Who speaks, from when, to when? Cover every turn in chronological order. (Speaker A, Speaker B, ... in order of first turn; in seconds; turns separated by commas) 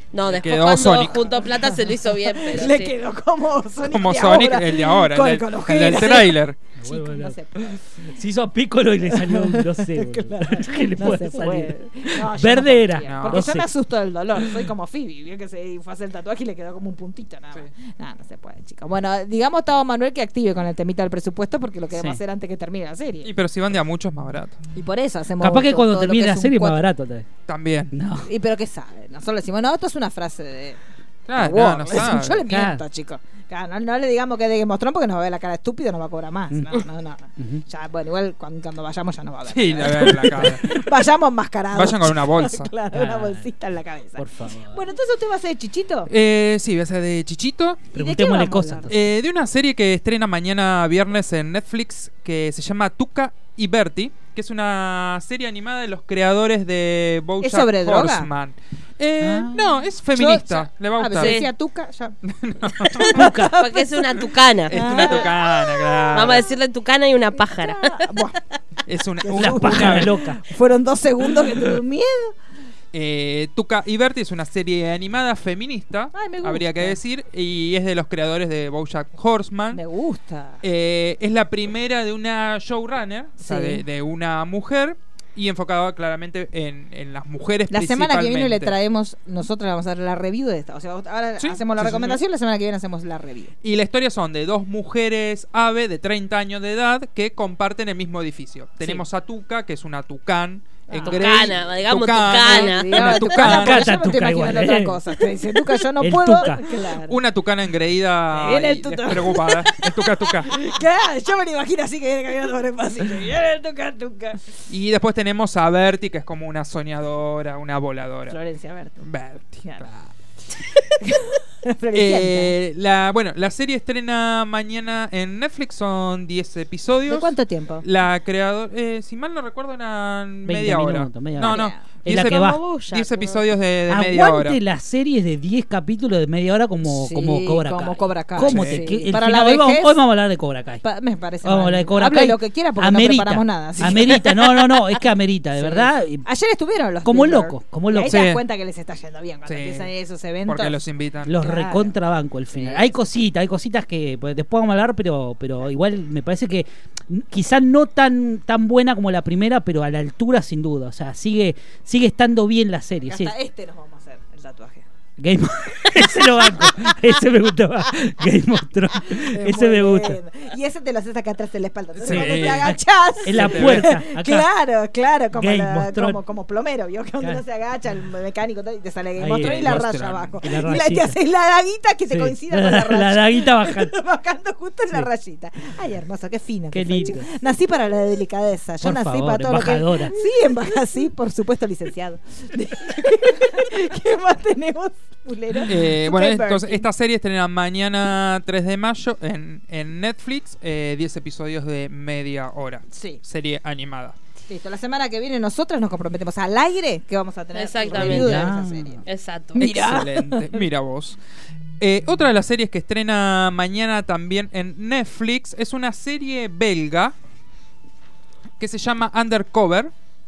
Speaker A: 0.1-2.9, Speaker B: 0.2-1.3, Speaker C: 0.9-1.8, Speaker C: 2.3-8.1, Speaker B: 3.8-6.6, Speaker D: 6.8-7.4, Speaker D: 8.0-13.7, Speaker C: 9.1-23.3, Speaker B: 13.1-13.5, Speaker D: 14.3-14.6, Speaker D: 21.9-22.2, Speaker B: 23.2-24.6, Speaker C: 24.8-26.8, Speaker D: 25.4-27.3, Speaker B: 27.5-27.9, Speaker D: 27.9-28.3, Speaker C: 28.2-30.8, Speaker B: 31.3-32.4, Speaker C: 31.3-46.1, Speaker D: 32.5-32.8, Speaker D: 36.5-36.8, Speaker D: 37.4-37.6, Speaker B: 39.5-40.8, Speaker B: 41.7-42.7, Speaker D: 42.9-43.5, Speaker D: 44.2-44.8, Speaker B: 46.1-47.9, Speaker C: 47.9-48.9, Speaker D: 47.9-49.0, Speaker B: 48.9-61.4, Speaker C: 57.4-58.3, Speaker D: 59.2-59.9, Speaker C: 60.1-63.9, Speaker A: 61.1-61.5, Speaker B: 62.3-63.2, Speaker D: 63.1-63.5, Speaker A: 63.4-65.4, Speaker B: 64.7-66.5, Speaker C: 64.7-66.4, Speaker A: 66.1-68.1, Speaker C: 67.3-68.4, Speaker B: 68.9-70.1, Speaker C: 69.2-72.3, Speaker D: 69.3-70.4, Speaker B: 72.9-79.8, Speaker C: 76.1-77.0, Speaker C: 79.7-80.6, Speaker B: 80.6-88.7, Speaker C: 83.4-83.8, Speaker C: 87.7-93.5, Speaker B: 91.4-92.2, Speaker B: 93.6-104.0, Speaker C: 100.9-101.3, Speaker A: 101.0-103.2, Speaker C: 102.5-107.2, Speaker D: 103.2-105.0, Speaker D: 106.0-106.6, Speaker B: 107.0-110.6, Speaker C: 108.3-114.4, Speaker B: 114.7-118.4, Speaker C: 118.3-119.0, Speaker B: 119.0-120.1, Speaker C: 121.0-122.5, Speaker B: 121.9-127.3, Speaker C: 127.1-127.8, Speaker B: 127.8-134.6, Speaker D: 130.4-132.6, Speaker C: 131.4-131.8, Speaker A: 132.1-133.4, Speaker D: 133.9-140.8, Speaker C: 136.8-140.0, Speaker B: 138.4-138.9, Speaker C: 140.8-144.3, Speaker D: 141.4-146.2, Speaker C: 145.6-150.8, Speaker D: 147.0-148.2, Speaker B: 148.1-148.4, Speaker B: 149.5-149.9, Speaker B: 150.5-151.3, Speaker D: 151.2-163.3, Speaker C: 151.4-151.9, Speaker C: 163.1-164.8, Speaker D: 165.2-170.2, Speaker C: 165.8-166.9, Speaker C: 169.0-196.9, Speaker B: 172.0-172.8, Speaker D: 172.1-174.5, Speaker B: 173.3-173.9, Speaker D: 175.3-176.2, Speaker D: 179.2-181.2, Speaker B: 179.3-180.3, Speaker D: 182.1-183.9, Speaker D: 186.7-187.3, Speaker D: 188.8-190.2, Speaker B: 195.7-204.2, Speaker C: 202.9-203.2, Speaker C: 204.5-209.0, Speaker A: 207.5-208.5, Speaker D: 207.9-209.0, Speaker A: 209.1-209.7, Speaker C: 209.5-210.6, Speaker B: 209.6-211.2, Speaker B: 211.8-217.1, Speaker B: 218.6-219.9